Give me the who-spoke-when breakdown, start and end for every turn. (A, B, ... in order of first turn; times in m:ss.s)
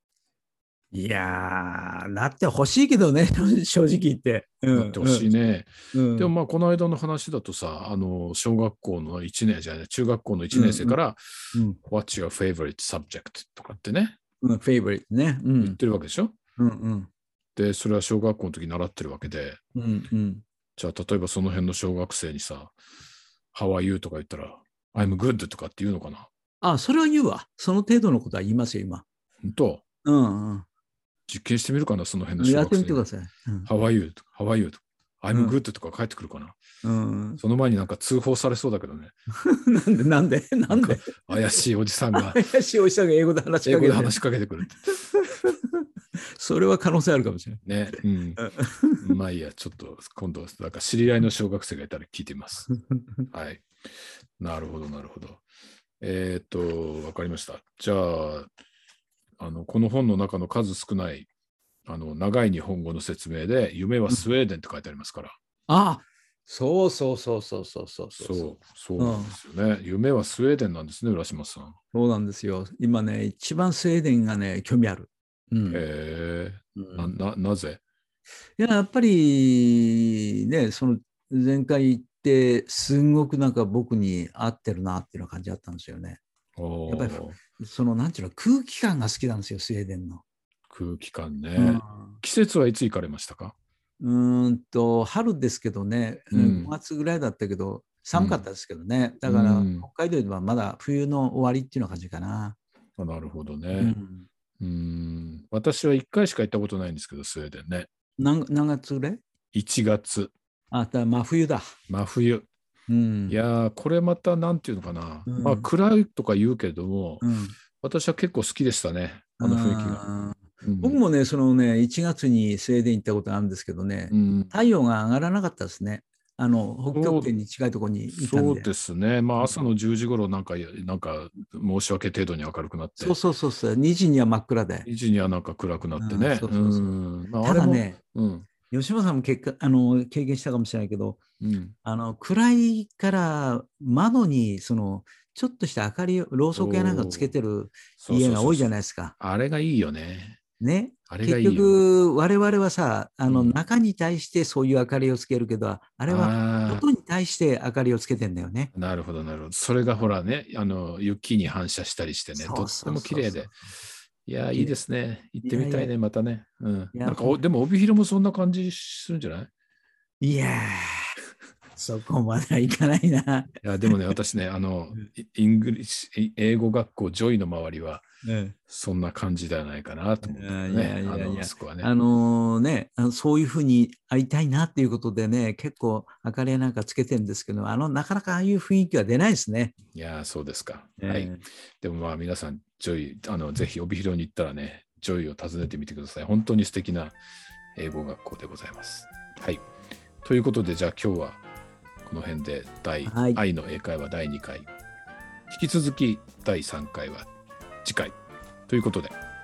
0:00.9-0:05.2 A
0:04.7-0:14.2 B
0:05.9-0:06.3 A
0:10.5-0:11.0 A
0:14.4-0:15.8 A
0:15.6-0:16.4 B
0:16.6-0:17.1 A
0:17.6-0:19.6 B
0:19.7-0:20.4 A
0:20.8-0:22.8 B
0:23.5-0:26.3 B
0:26.6-0:29.0 A
0:29.4-0:29.8 B
0:30.0-0:30.6 A
0:31.3-0:33.0 B
0:32.4-0:33.7 A
0:33.6-0:36.6 B
0:36.8-0:37.4 A
0:37.4-0:39.1 B
0:39.4-0:41.2 A
0:40.7-0:42.4 B
0:42.1-0:44.2 A
0:43.6-0:45.0 B
0:45.1-0:47.6 A
0:47.6-0:48.4 B
0:48.4-0:49.0 A
0:49.0-0:52.7 B
0:53.3-0:55.4 B
0:56.0-0:58.5 B
0:59.4-1:01.3 B
1:01.8-1:05.4 B
1:05.7-1:08.4 A
1:08.2-1:11.8 B
1:09.0-1:09.3 A
1:11.9-1:15.8 A
1:15.7-1:17.8 B
1:16.8-1:17.1 A
1:18.6-1:26.2 A
1:26.6-1:27.4 B
1:26.9-1:30.2 A
1:30.7-1:33.5 B
1:31.6-1:32.2 A
1:34.0-1:42.6 A
1:36.3-1:36.7 B
1:38.1-1:38.4 B
1:39.2-1:39.8 B
1:43.0-1:43.9 B
1:43.8-1:44.2 A
1:44.6-1:47.9 B
1:48.2-1:49.2 A
1:49.5-1:50.3 B
1:50.7-1:51.7 A
1:51.9-1:52.4 B
1:52.9-1:53.4 A
1:53.3-1:57.2 B
1:55.3-1:55.7 A
1:57.2-1:57.6 A
1:57.8-2:00.0 B
1:59.4-2:08.7 A
2:00.6-2:01.0 B
2:04.1-2:04.5 B
2:06.9-2:07.3 B
2:08.2-2:13.2 B
2:13.0-2:14.9 A
2:14.8-2:18.5 B
2:16.0-2:16.9 A
2:17.4-2:18.0 A
2:18.7-2:21.2 A
2:21.4-2:21.8 B
2:21.8-2:29.1 A
2:26.5-2:27.3 B
2:28.0-2:30.4 B
2:30.6-2:38.7 A
2:31.1-2:31.8 B
2:33.3-2:33.6 B
2:36.1-2:36.8 B
2:38.7-2:43.6 B
2:42.4-2:43.4 A
2:44.2-2:49.5 B
2:45.4-2:45.9 A
2:46.9-2:47.4 A
2:50.2-2:51.1 A
2:51.8-2:53.6 A
2:53.6-2:58.0 B
2:58.2-2:58.6 A
2:58.7-3:01.9 B
3:00.2-3:09.7 A
3:09.9-3:17.2 B
3:11.0-3:11.4 A
3:17.8-3:19.6 B
3:20.2-3:21.4 B
3:22.0-3:24.7 B
3:23.0-3:23.4 A
3:25.5-3:27.3 B
3:27.8-3:28.1 B
3:28.7-3:29.1 B